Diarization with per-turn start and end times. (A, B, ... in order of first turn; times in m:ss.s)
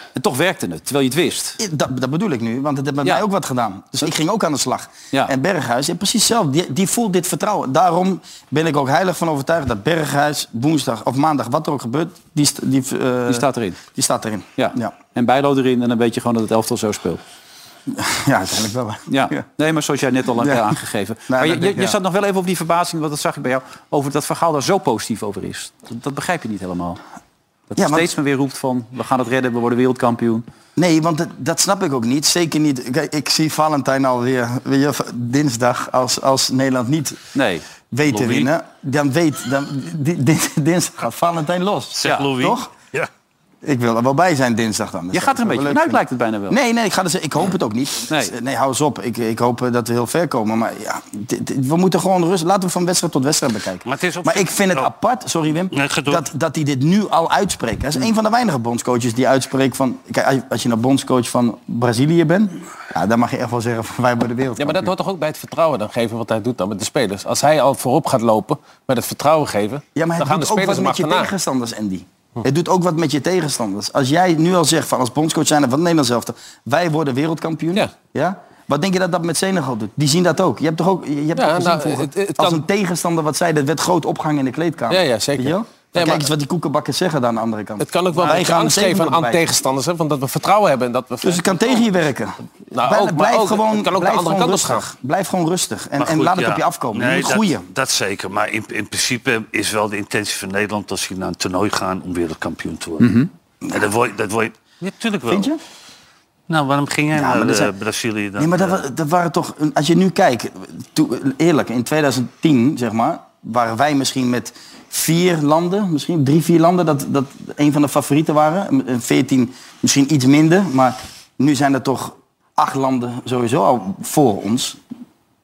0:00.2-0:01.6 A
0:01.6-0:14.9 B
0:13.3-0:13.8 A
0:14.6-0:17.2 A
0:17.9-0:19.4 B
0:19.1-0:27.0 A
0:20.4-0:20.8 B
0:21.3-0:22.0 B
0:27.7-0:30.4 A
0:27.8-0:28.1 B
0:30.8-0:37.2 B
0:37.3-0:37.6 A
0:37.9-0:42.7 B
0:42.0-0:43.1 C
0:42.0-0:42.3 A
0:43.6-1:04.9 B
0:45.1-0:46.6 A
0:53.8-0:54.9 C
0:55.7-0:56.2 C
1:04.6-1:11.3 D
1:09.9-1:29.4 B
1:21.4-1:22.6 D
1:24.9-1:26.3 D
1:27.8-1:31.8 D
1:31.2-1:37.7 B
1:32.7-1:34.8 D
1:36.0-1:43.1 C
1:43.0-1:43.3 A
1:43.6-1:45.5 C
1:45.3-1:45.6 B
1:46.5-1:48.8 C
1:47.1-1:47.7 B
1:48.4-2:04.8 B